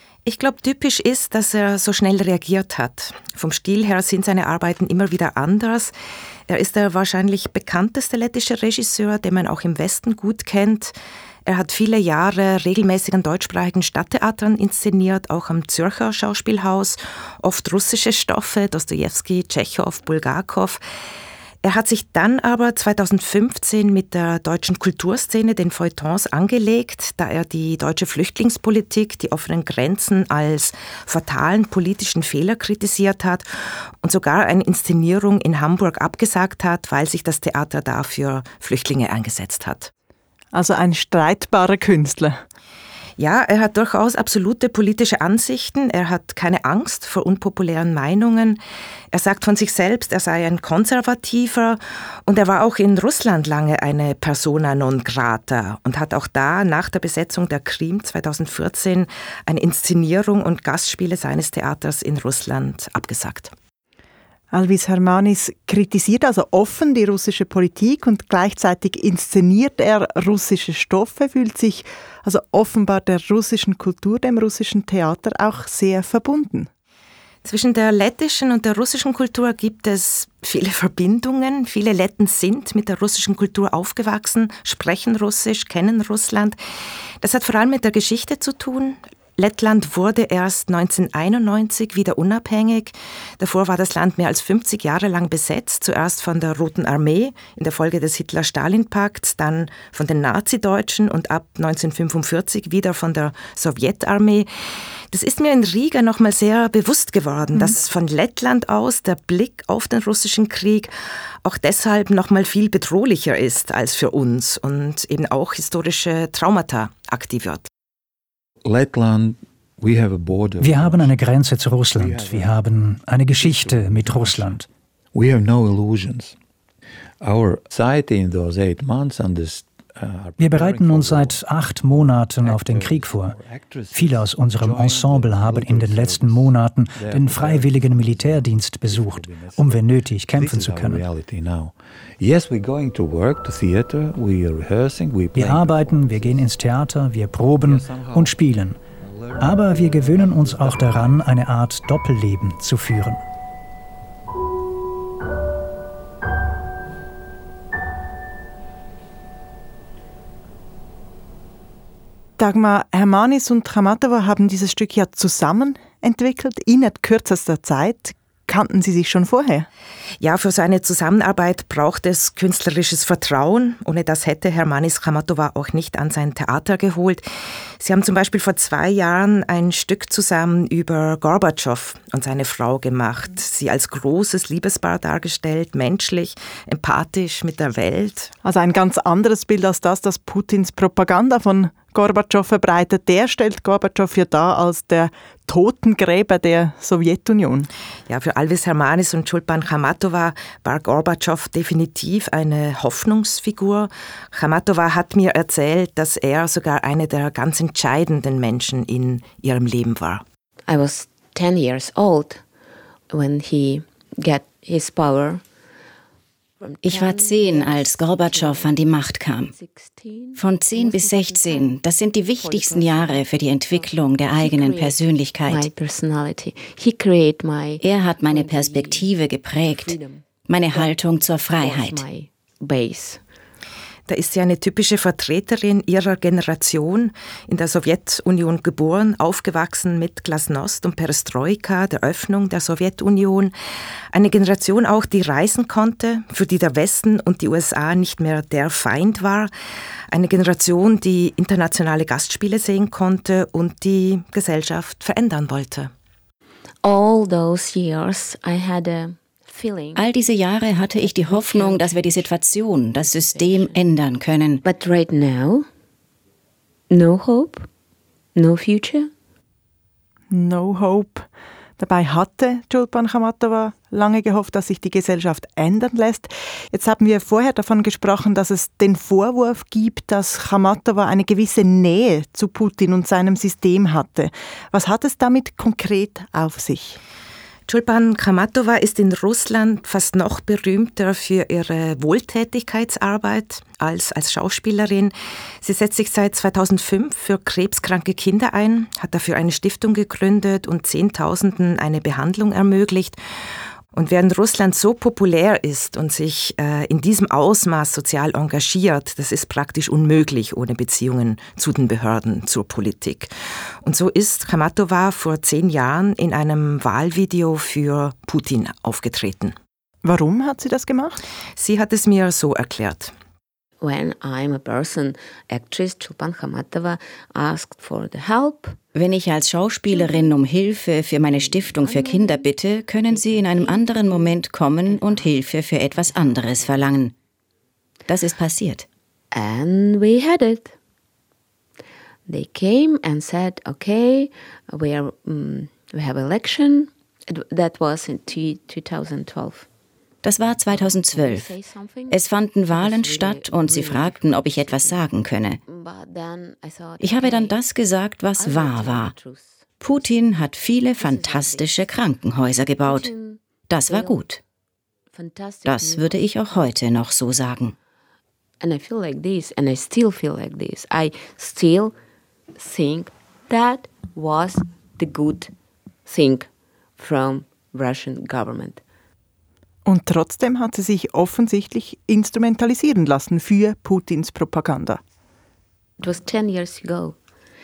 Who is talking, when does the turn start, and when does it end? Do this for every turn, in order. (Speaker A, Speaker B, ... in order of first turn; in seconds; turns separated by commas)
Speaker A: 0.2-5.9, Speaker A: 6.5-10.9, Speaker A: 11.4-20.8, Speaker A: 21.6-33.5, Speaker A: 34.0-39.9, Speaker B: 40.5-42.4, Speaker A: 43.2-48.6, Speaker A: 49.1-63.5, Speaker B: 64.5-76.7, Speaker A: 77.4-86.6, Speaker A: 87.2-104.5, Speaker A: 105.1-110.9, Speaker A: 111.4-117.7, Speaker C: 118.6-121.2, Speaker D: 120.6-124.7, Speaker C: 121.9-122.6, Speaker C: 123.3-124.6, Speaker C: 125.1-126.3, Speaker C: 127.2-146.6, Speaker D: 130.4-133.4, Speaker D: 133.9-141.0, Speaker D: 145.3-148.8, Speaker C: 147.6-148.4, Speaker C: 149.0-151.3, Speaker D: 149.4-153.2, Speaker B: 162.4-169.7, Speaker A: 170.2-177.3, Speaker A: 177.8-188.3, Speaker B: 188.4-197.7, Speaker A: 198.1-210.2, Speaker E: 210.7-212.4, Speaker E: 213.1-215.4, Speaker E: 216.6-218.8, Speaker F: 216.8-219.5, Speaker E: 219.5-221.8, Speaker F: 220.3-225.7, Speaker E: 222.4-229.1, Speaker F: 227.8-229.9, Speaker E: 229.8-230.9, Speaker F: 230.5-232.0, Speaker E: 231.6-233.2, Speaker A: 234.1-243.5, Speaker A: 244.1-249.5, Speaker A: 250.1-255.9, Speaker E: 256.8-260.0, Speaker F: 259.9-264.6, Speaker E: 261.0-262.3, Speaker E: 263.0-263.8, Speaker E: 264.6-265.7, Speaker E: 266.9-267.7, Speaker E: 268.3-269.1, Speaker B: 270.3-287.0, Speaker A: 287.7-303.2, Speaker A: 303.9-313.3, Speaker A: 313.8-319.6, Speaker B: 320.0-321.2, Speaker A: 321.6-323.1, Speaker E: 323.8-328.8, Speaker F: 328.9-337.1, Speaker E: 329.9-330.4, Speaker E: 331.3-332.5, Speaker E: 333.0-335.4, Speaker E: 335.9-336.8, Speaker F: 338.1-338.9, Speaker E: 339.3-340.7, Speaker E: 342.3-349.7, Speaker F: 350.2-351.5, Speaker E: 350.7-355.0, Speaker F: 352.1-355.6, Speaker E: 355.6-357.6, Speaker F: 357.0-359.1, Speaker E: 358.4-360.0, Speaker F: 359.8-363.1, Speaker E: 361.0-361.9, Speaker E: 362.8-364.2, Speaker F: 363.7-364.4, Speaker E: 365.1-366.2, Speaker F: 365.7-367.7, Speaker E: 368.6-371.9, Speaker E: 372.6-375.5, Speaker E: 376.1-378.8, Speaker B: 379.8-385.0, Speaker E: 386.0-387.2